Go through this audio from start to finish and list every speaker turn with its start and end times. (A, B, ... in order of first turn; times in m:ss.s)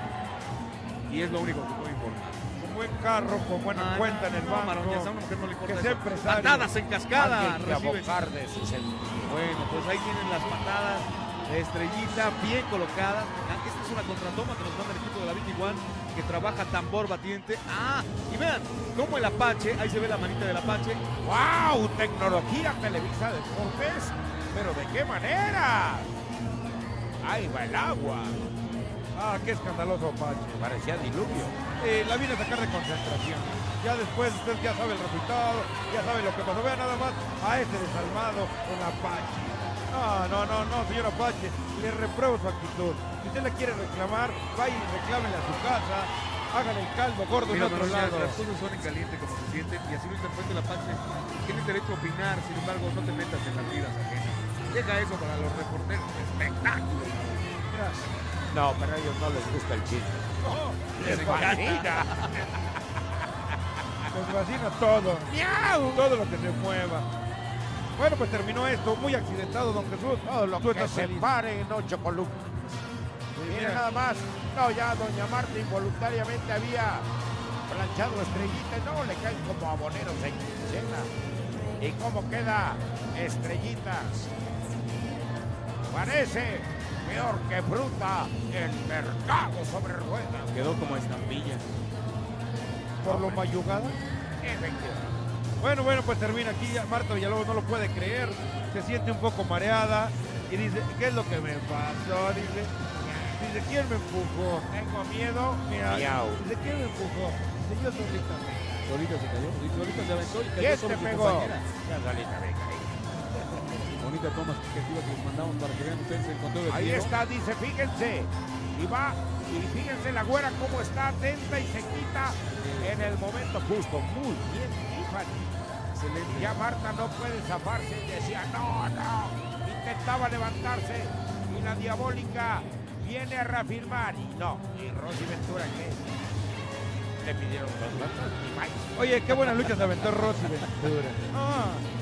0:01.1-0:02.4 A
0:02.6-0:05.1 B
0:03.7-0:08.3 A
0:05.6-0:06.7 B
0:07.1-0:09.4 C
0:09.2-0:21.0 A
0:21.2-0:26.1 C
0:27.2-0:28.5 C
0:29.1-0:30.7 B
0:30.5-0:31.6 C
0:31.8-0:48.4 B
0:47.5-0:57.5 A
0:57.7-0:58.0 B
0:58.5-1:00.4 C
1:00.4-1:01.4 B
1:00.9-1:04.0 C
1:01.0-1:02.5 A
1:04.1-1:05.3 B
1:05.2-1:06.1 C
1:05.9-1:07.1 B
1:08.0-1:11.3 B
1:10.2-1:12.8 C
1:13.3-1:13.8 B
1:13.4-1:17.1 C
1:17.7-1:21.1 C
1:21.8-1:24.3 C
1:25.9-1:31.2 C
1:30.5-1:31.6 A
1:33.0-1:34.0 B
1:33.0-1:33.6 C
1:34.4-1:35.2 C
1:35.6-1:42.7 B
1:43.0-1:43.4 C
1:43.3-1:44.7 B
1:44.7-1:46.4 C
1:45.6-1:48.8 B
1:48.8-1:51.6 A
1:50.6-1:53.6 C
1:53.9-1:57.1 A
1:56.7-2:05.6 C
2:02.6-2:03.2 A
2:05.9-2:06.6 A
2:06.3-2:16.1 C
2:17.2-2:19.0 C
2:18.9-2:21.8 B